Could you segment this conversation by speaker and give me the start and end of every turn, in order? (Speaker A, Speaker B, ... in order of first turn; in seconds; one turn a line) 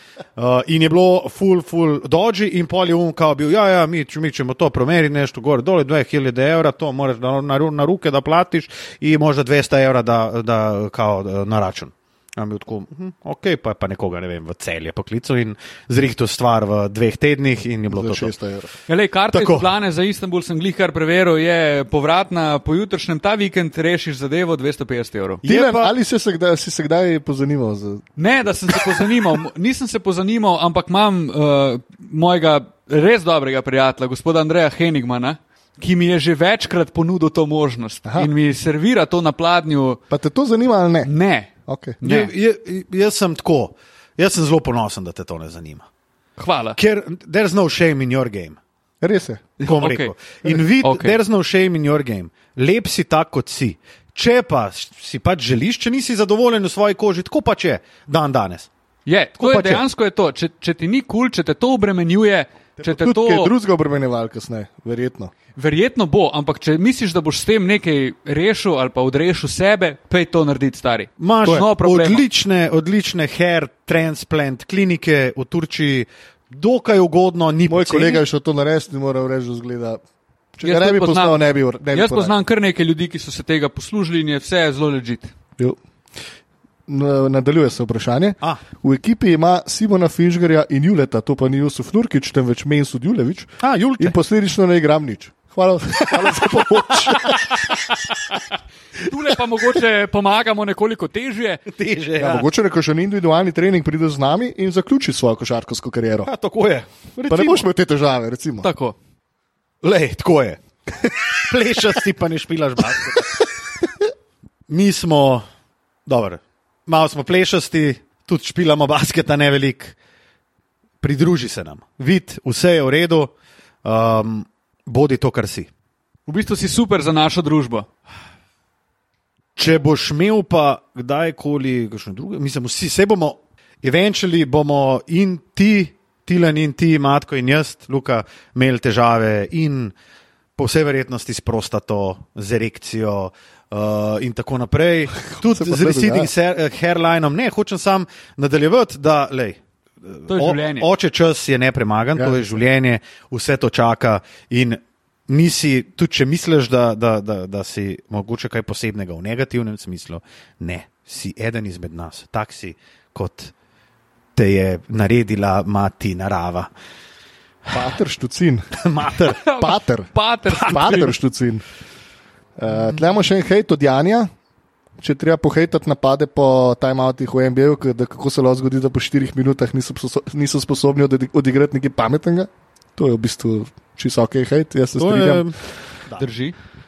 Speaker A: 0.4-18.3
Speaker B: 17.9-18.7
Speaker C: 18.9-25.4
Speaker A: 19.3-19.7
Speaker A: 25.4-25.9
Speaker B: 25.4-28.0
Speaker C: 28.2-40.0
Speaker B: 40.1-41.1
Speaker C: 41.0-42.3
Speaker B: 41.7-42.0
Speaker A: 42.0-45.9
Speaker C: 46.4-46.8
Speaker A: 46.8-48.6
Speaker B: 49.0-49.5
Speaker C: 49.6-51.2
Speaker A: 49.6-58.7
Speaker C: 59.0-63.5
Speaker A: 59.4-59.8
Speaker B: 62.8-65.3
Speaker C: 65.5-72.2
Speaker A: 71.2-78.2
Speaker B: 77.7-80.0
Speaker B: 80.5-82.3
Speaker C: 80.6-81.4
Speaker C: 81.9-85.3
Speaker B: 86.9-97.6
Speaker A: 93.6-94.2
Speaker A: 96.2-97.6
Speaker C: 99.0-101.6
Speaker A: 101.7-102.5
Speaker B: 102.2-106.3
Speaker A: 106.2-107.7
Speaker B: 107.3-108.7
Speaker C: 108.6-108.9
Speaker A: 109.8-110.6
Speaker A: 111.4-113.4
Speaker A: 114.7-115.4
Speaker A: 116.0-120.0
Speaker A: 121.0-123.3
Speaker A: 123.8-125.7
Speaker C: 126.3-127.8
Speaker A: 129.6-139.9
Speaker A: 140.6-163.5
Speaker B: 145.3-146.3
Speaker C: 150.3-150.9
Speaker B: 152.2-152.6
Speaker A: 164.3-166.7
Speaker B: 167.7-168.7
Speaker A: 168.8-169.4
Speaker C: 169.4-171.2
Speaker B: 169.4-171.6
Speaker B: 172.6-174.3
Speaker B: 175.0-185.5
Speaker A: 185.0-185.6
Speaker C: 186.2-186.5